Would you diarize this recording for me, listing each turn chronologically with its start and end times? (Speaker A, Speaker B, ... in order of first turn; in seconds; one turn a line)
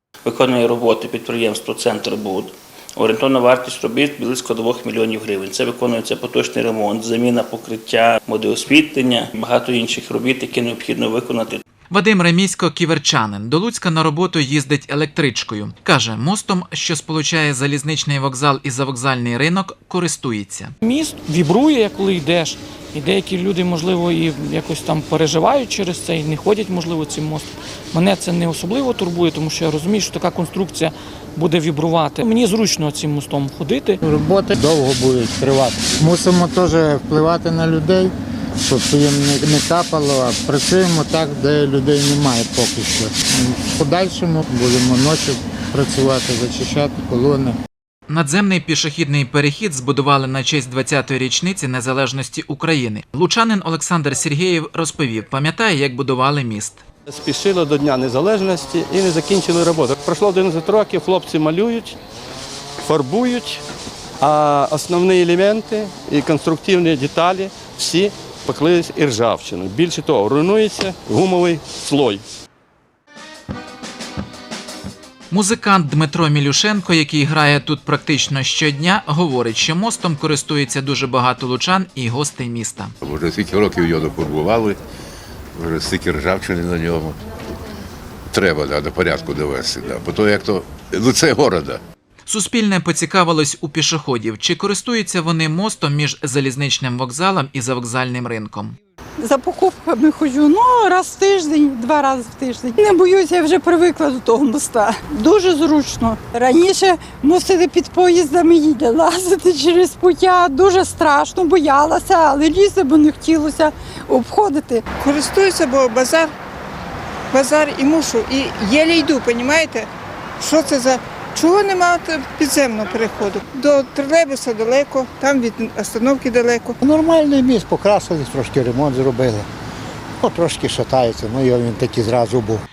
Speaker A: 0.2-11.6
Speaker B: 11.9-20.7
Speaker C: 20.8-34.0
Speaker D: 34.0-38.1
Speaker D: 38.6-47.6
Speaker B: 48.1-56.8
Speaker E: 57.1-62.0
Speaker E: 62.8-63.6
Speaker E: 64.2-72.2
Speaker B: 75.3-82.9
Speaker F: 83.0-84.8
Speaker F: 85.5-87.2
Speaker F: 88.3-91.8
Speaker B: 92.2-98.7
Speaker G: 99.2-114.8
Speaker H: 115.0-116.3
Speaker H: 117.3-119.9
Speaker H: 120.4-126.8
Speaker D: 126.8-129.4
Speaker D: 130.2-132.6